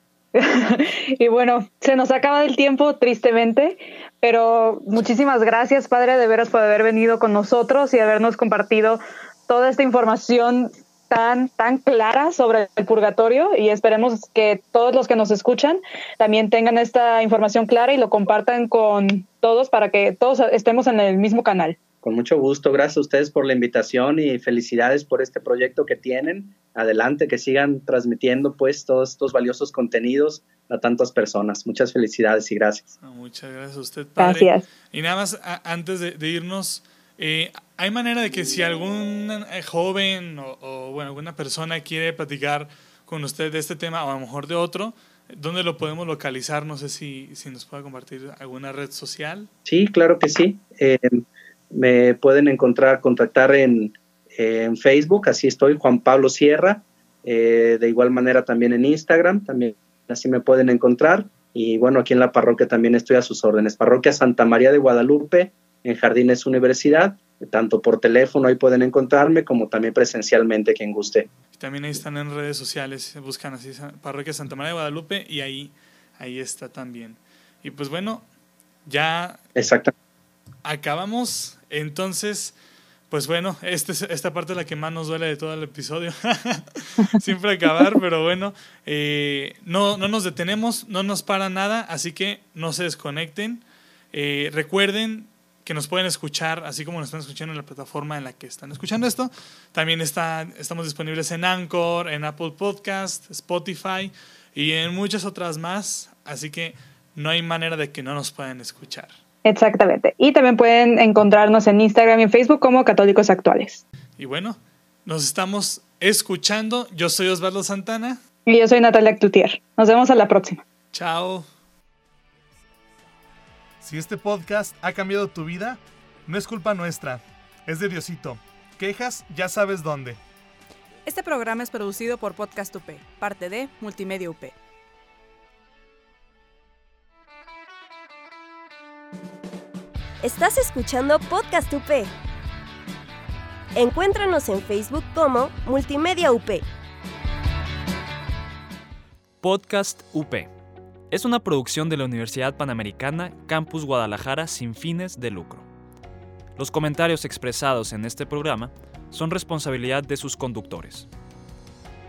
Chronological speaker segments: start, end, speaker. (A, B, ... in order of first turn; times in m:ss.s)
0:00.4-0:21.8 A
0:22.0-0:32.9 B
0:33.0-0:49.5 C
0:34.2-0:34.6 A
0:49.7-1:11.3 B
1:11.5-1:18.3 C
1:18.9-1:19.4 C
1:19.6-1:19.9 B
1:20.6-1:22.5 C
1:23.1-1:49.1 C
1:49.4-1:53.8 A
1:54.2-1:58.2 C
1:58.5-2:00.6 A
2:00.9-2:01.5 C
2:03.8-2:10.2 C
2:11.1-2:14.6 D
2:20.2-2:22.1 E
2:23.8-2:26.6 E
2:29.4-2:30.5 F
2:31.1-2:35.7 F
2:36.6-2:41.1 F